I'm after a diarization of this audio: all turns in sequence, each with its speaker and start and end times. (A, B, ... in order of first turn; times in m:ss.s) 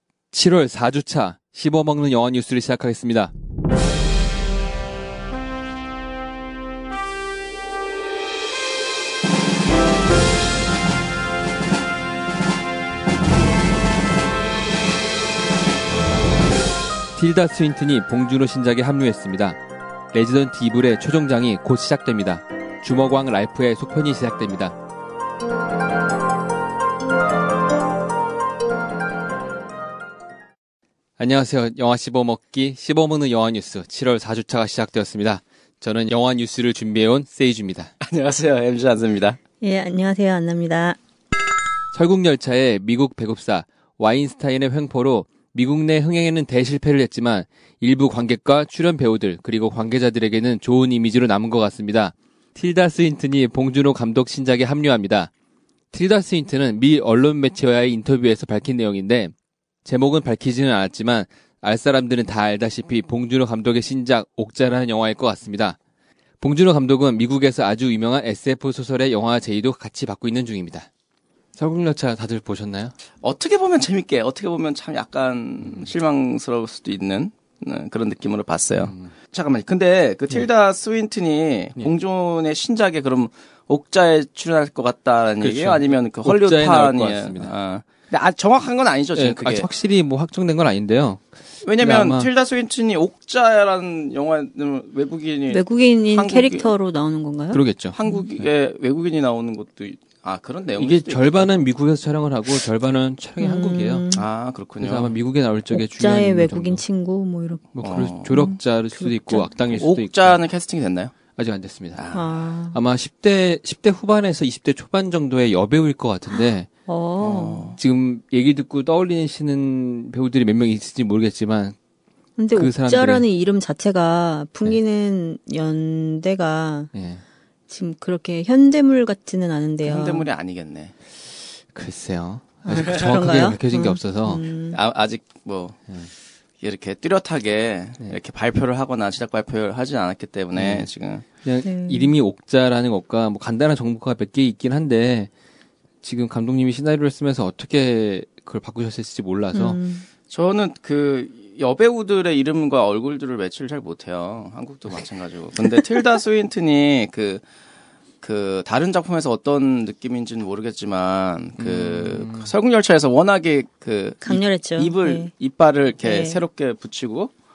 0:00.3-0:03.3 A
0:17.1-0:19.6 A
0:20.1-0:24.8 A
0:31.2-0:37.9 A
0:38.0-0:39.4 B
0:39.6-0:41.0 C
0:41.9-0:55.3 A
0:55.9-0:59.3 A
0:59.8-1:05.8 A
1:06.4-1:10.9 A
1:11.5-1:12.9 A
1:13.2-1:29.7 B
1:25.4-1:27.5 A
1:29.1-1:32.3 A
1:31.6-1:36.7 B
1:35.5-1:38.2 C
1:37.5-1:38.0 A
1:37.9-1:41.5 B
1:40.8-1:44.1 A
1:43.4-1:44.2 C
1:44.1-1:45.2 B
1:44.8-1:46.8 A
1:45.7-1:49.5 C
1:47.7-1:50.4 A
1:47.8-1:48.4 B
1:49.6-1:51.1 B
1:51.4-1:52.0 A
1:51.9-1:52.3 B
1:52.1-1:52.8 C
1:52.7-1:56.7 A
1:56.9-1:57.7 C
1:57.2-1:57.8 B
1:57.8-2:01.8 A
2:02.4-2:06.9 C
2:02.5-2:03.2 A
2:06.9-2:07.2 A
2:07.7-2:10.3 C
2:09.8-2:10.9 B
2:11.7-2:14.4 A
2:12.6-2:14.8 C
2:14.7-2:15.8 B
2:16.6-2:21.2 B
2:20.5-2:20.9 A
2:21.4-2:25.3 A
2:21.6-2:22.1 C
2:26.0-2:29.8 A
2:29.5-2:30.0 C
2:30.3-2:37.4 B
2:38.2-2:47.3 B
2:41.6-2:42.5 A
2:44.2-2:45.3 C
2:46.0-2:46.4 C